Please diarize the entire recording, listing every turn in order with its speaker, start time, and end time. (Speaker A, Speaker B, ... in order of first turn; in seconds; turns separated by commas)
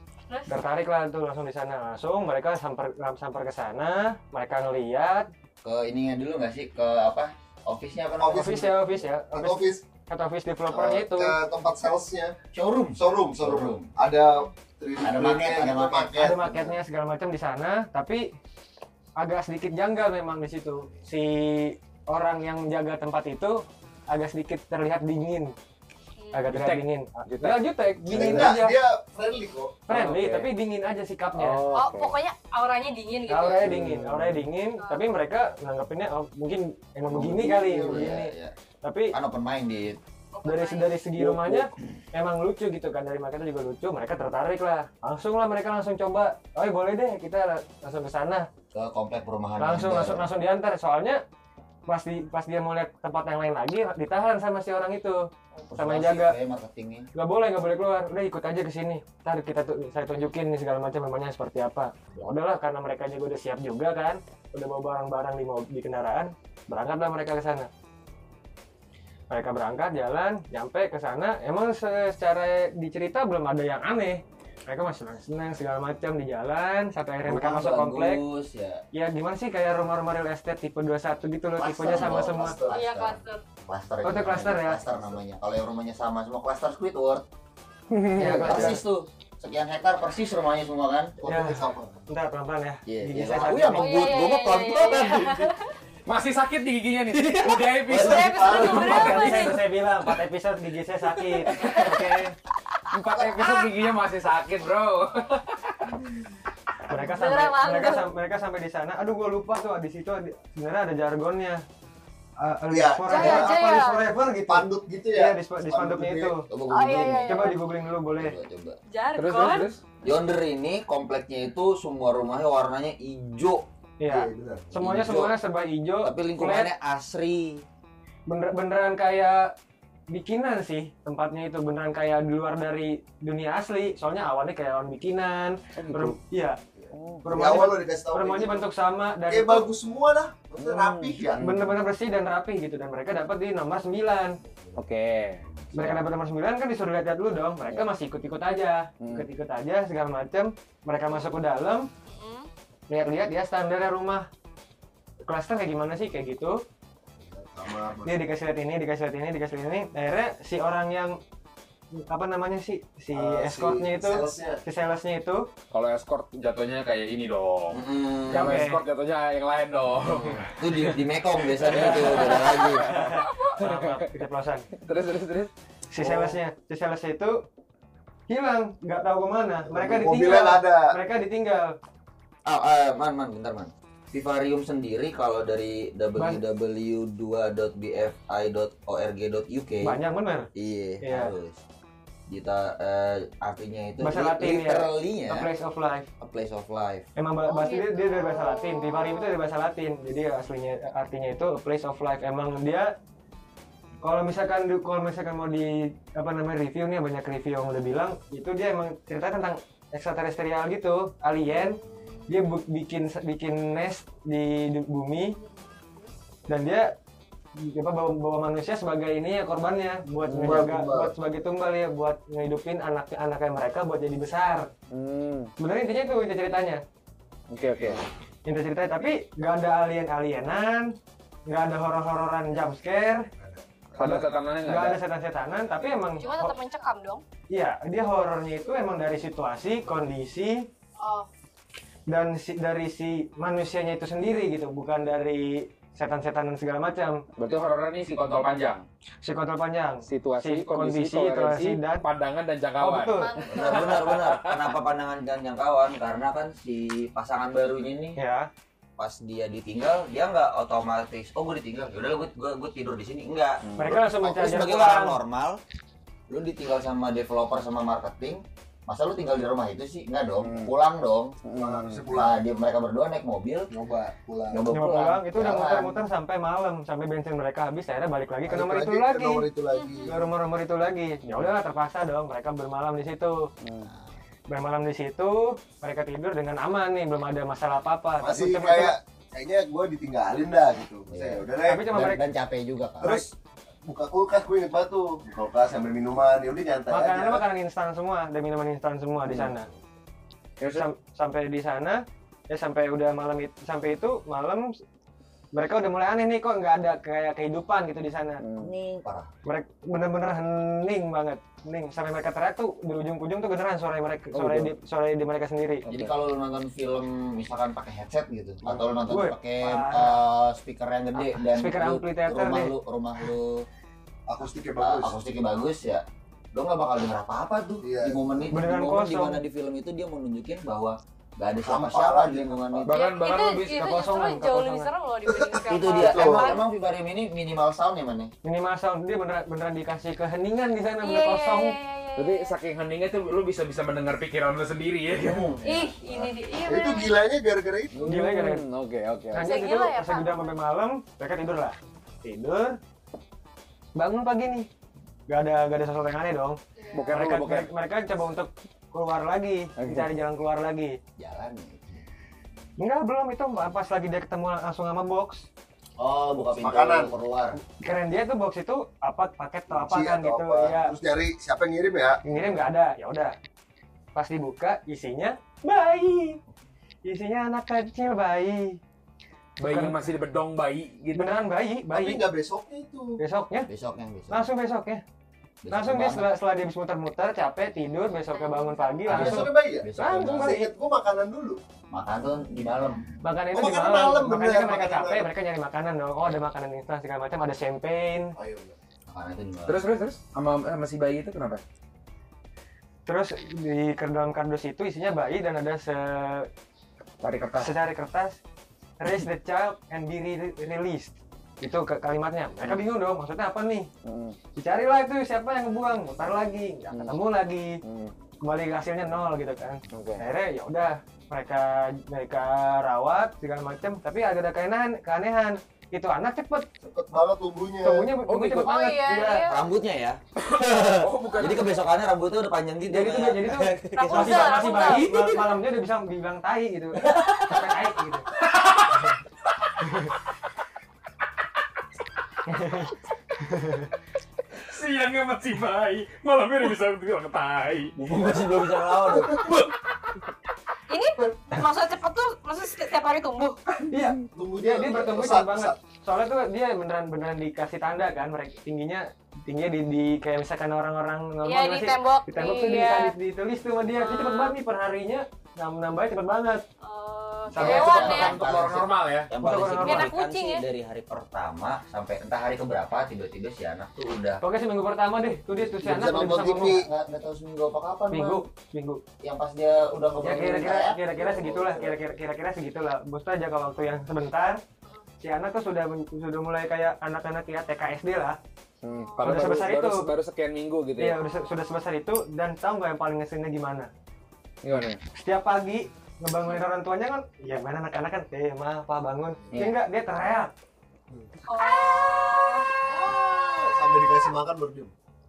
Speaker A: 0.5-5.3, Speaker B: 5.6-8.8, Speaker A: 8.2-11.4, Speaker C: 9.3-9.8, Speaker C: 10.7-12.4, Speaker B: 12.5-13.9, Speaker C: 12.9-16.6, Speaker B: 15.0-16.8, Speaker A: 16.2-18.3, Speaker A: 19.2-25.5, Speaker D: 26.2-26.4, Speaker A: 26.3-28.8, Speaker E: 26.5-27.5, Speaker C: 28.1-29.9, Speaker F: 28.1-28.5, Speaker A: 29.9-31.6, Speaker F: 29.9-30.5, Speaker F: 31.3-32.2, Speaker D: 31.7-33.7, Speaker A: 33.3-38.3, Speaker F: 33.6-34.4, Speaker B: 37.1-38.5, Speaker C: 37.8-38.1, Speaker A: 38.8-39.1, Speaker B: 39.1-40.0, Speaker D: 40.3-41.0, Speaker A: 40.4-48.5, Speaker F: 41.2-41.6, Speaker B: 48.7-50.3, Speaker A: 49.6-51.2, Speaker A: 51.9-56.4, Speaker B: 55.7-57.1, Speaker A: 57.1-67.7, Speaker A: 69.3-78.2, Speaker B: 77.2-78.8, Speaker A: 78.9-82.5, Speaker B: 81.6-87.2, Speaker C: 81.9-82.7, Speaker D: 82.7-83.4, Speaker A: 84.0-84.8, Speaker A: 88.0-88.8, Speaker F: 88.1-88.7, Speaker B: 88.2-91.2, Speaker C: 91.2-92.0, Speaker A: 91.2-94.1, Speaker B: 92.9-95.5, Speaker D: 93.8-95.7, Speaker E: 96.1-99.1, Speaker C: 97.8-99.5, Speaker D: 97.9-99.8, Speaker A: 98.5-102.3, Speaker D: 101.6-101.9, Speaker E: 102.9-106.0, Speaker A: 106.9-111.6, Speaker D: 107.0-108.0, Speaker A: 112.4-116.5, Speaker C: 112.7-113.6, Speaker D: 113.1-114.0, Speaker C: 114.5-116.3, Speaker B: 116.5-117.6, Speaker D: 116.7-117.6, Speaker A: 117.2-118.3, Speaker B: 118.1-118.8, Speaker D: 118.9-119.7, Speaker E: 119.1-119.8, Speaker B: 120.0-123.6, Speaker A: 124.0-126.7, Speaker C: 124.0-124.7, Speaker B: 124.8-125.3, Speaker B: 126.0-127.6, Speaker A: 128.3-129.5, Speaker A: 130.1-136.6, Speaker F: 135.8-136.1, Speaker C: 136.8-138.7, Speaker F: 136.9-137.2, Speaker A: 137.2-139.7, Speaker C: 139.3-141.4, Speaker F: 140.6-141.8, Speaker A: 141.4-144.4, Speaker F: 144.8-146.1, Speaker A: 145.7-151.9, Speaker D: 152.1-152.5, Speaker A: 152.9-154.3, Speaker A: 155.2-156.6, Speaker C: 157.2-158.2, Speaker A: 158.1-161.2, Speaker A: 162.0-165.4, Speaker C: 163.1-164.6, Speaker E: 165.7-171.0, Speaker B: 167.7-168.6, Speaker A: 168.3-168.8, Speaker B: 170.5-172.9, Speaker E: 171.5-174.0, Speaker A: 171.7-174.7, Speaker D: 172.2-172.6, Speaker E: 174.8-175.5, Speaker A: 175.9-177.4, Speaker A: 178.3-181.8, Speaker C: 179.7-180.9, Speaker B: 182.4-190.0, Speaker A: 186.2-186.4, Speaker A: 189.8-190.5, Speaker B: 190.5-191.6, Speaker A: 191.0-191.3, Speaker B: 192.3-195.5, Speaker A: 194.0-196.1, Speaker B: 196.2-197.1, Speaker A: 197.2-202.9, Speaker D: 197.4-199.3, Speaker A: 204.0-215.3, Speaker D: 215.4-216.1, Speaker A: 216.5-216.9, Speaker A: 217.6-224.7, Speaker F: 220.4-220.7, Speaker C: 220.4-221.1, Speaker F: 224.9-225.5, Speaker A: 225.6-226.8, Speaker E: 227.5-228.0, Speaker A: 228.4-230.9, Speaker A: 231.5-233.2, Speaker E: 233.9-235.0, Speaker A: 234.0-236.5, Speaker D: 236.2-237.2, Speaker A: 237.5-240.7, Speaker D: 241.0-241.3, Speaker A: 242.1-247.2, Speaker E: 247.4-248.8, Speaker A: 249.2-252.0, Speaker E: 250.1-254.7, Speaker A: 252.8-253.4, Speaker D: 253.2-254.1, Speaker B: 253.5-258.2, Speaker A: 258.2-258.5, Speaker B: 259.0-265.6, Speaker F: 263.6-264.0, Speaker A: 263.8-265.2, Speaker B: 266.3-271.4, Speaker F: 270.4-270.7, Speaker F: 271.4-272.0, Speaker C: 271.5-272.4, Speaker B: 272.1-273.7, Speaker C: 273.7-274.7, Speaker B: 274.5-276.0, Speaker A: 274.7-279.4, Speaker C: 278.5-280.2, Speaker D: 279.7-280.1, Speaker A: 280.1-283.5, Speaker F: 281.2-281.5, Speaker F: 283.6-283.9, Speaker B: 283.8-284.2, Speaker A: 284.5-288.9, Speaker C: 288.2-291.9, Speaker B: 291.1-293.2, Speaker A: 291.6-292.2, Speaker C: 293.0-293.3, Speaker A: 293.0-293.3, Speaker C: 293.9-297.4, Speaker A: 296.9-299.7, Speaker E: 300.6-300.9, Speaker A: 300.7-304.8, Speaker A: 305.5-308.4, Speaker F: 308.4-308.7, Speaker B: 308.6-309.3, Speaker A: 309.4-315.9, Speaker F: 314.3-314.7, Speaker B: 315.9-323.6, Speaker A: 319.1-320.2, Speaker A: 321.5-322.7, Speaker C: 324.3-325.1, Speaker B: 324.8-333.0, Speaker C: 327.8-328.2, Speaker A: 328.5-329.4, Speaker C: 331.6-332.9, Speaker E: 332.9-333.8, Speaker D: 332.9-336.6, Speaker A: 333.7-334.9, Speaker C: 335.2-336.6, Speaker B: 335.7-338.3, Speaker A: 338.4-341.8, Speaker D: 341.0-342.6, Speaker E: 342.1-345.6, Speaker B: 345.3-346.3, Speaker D: 345.6-347.2, Speaker C: 346.6-348.0, Speaker F: 347.9-349.6, Speaker A: 348.0-348.6, Speaker A: 349.3-352.8, Speaker D: 349.4-350.5, Speaker A: 353.9-354.7, Speaker A: 355.3-361.0, Speaker D: 356.8-357.1, Speaker E: 356.9-357.7, Speaker B: 361.2-362.1, Speaker A: 362.8-365.5, Speaker B: 366.0-367.6, Speaker C: 366.5-367.1, Speaker A: 367.7-370.9, Speaker C: 369.7-372.2, Speaker A: 372.2-373.3, Speaker A: 374.1-376.4, Speaker A: 377.0-378.8, Speaker E: 379.6-381.3, Speaker A: 379.6-380.0, Speaker A: 381.1-382.2, Speaker C: 381.9-383.2, Speaker A: 383.2-383.7, Speaker B: 383.7-384.5, Speaker A: 384.3-385.0, Speaker B: 385.6-386.3, Speaker A: 385.7-390.7, Speaker D: 388.3-389.3, Speaker C: 389.1-391.6, Speaker B: 389.1-390.6, Speaker B: 391.9-393.2, Speaker A: 393.2-398.3, Speaker C: 393.5-395.3, Speaker C: 398.4-398.8, Speaker B: 399.1-399.9, Speaker E: 399.7-401.6, Speaker A: 403.1-406.5, Speaker E: 407.2-407.7, Speaker A: 407.6-408.4, Speaker A: 409.0-413.9, Speaker F: 414.0-414.4, Speaker A: 414.6-417.8, Speaker F: 416.9-417.2, Speaker F: 417.8-418.1, Speaker A: 418.4-426.6, Speaker F: 419.9-420.3, Speaker C: 426.8-428.1, Speaker A: 427.8-429.5, Speaker E: 428.3-428.7, Speaker D: 428.6-429.6, Speaker B: 429.5-434.7, Speaker E: 430.9-431.7, Speaker A: 432.9-438.3, Speaker D: 434.0-435.1, Speaker E: 438.4-439.1, Speaker A: 439.8-440.1, Speaker A: 442.5-443.9, Speaker E: 444.7-447.9, Speaker B: 447.9-449.5, Speaker E: 449.1-449.7, Speaker D: 450.9-453.6, Speaker A: 453.9-466.6, Speaker C: 454.3-455.7, Speaker D: 461.4-463.1, Speaker D: 464.0-464.5, Speaker D: 466.8-468.4, Speaker B: 467.5-474.4, Speaker E: 467.5-469.3, Speaker A: 469.4-470.1, Speaker D: 469.8-470.6, Speaker A: 474.4-476.8, Speaker C: 475.8-476.8, Speaker B: 476.0-478.4, Speaker A: 478.1-479.0, Speaker B: 479.2-481.9, Speaker A: 480.2-484.6, Speaker A: 485.2-488.4, Speaker E: 488.8-491.2, Speaker D: 488.9-489.4, Speaker A: 489.2-490.1, Speaker A: 491.0-493.9, Speaker E: 494.6-495.0, Speaker A: 495.1-500.5, Speaker D: 501.5-502.8, Speaker C: 502.8-504.9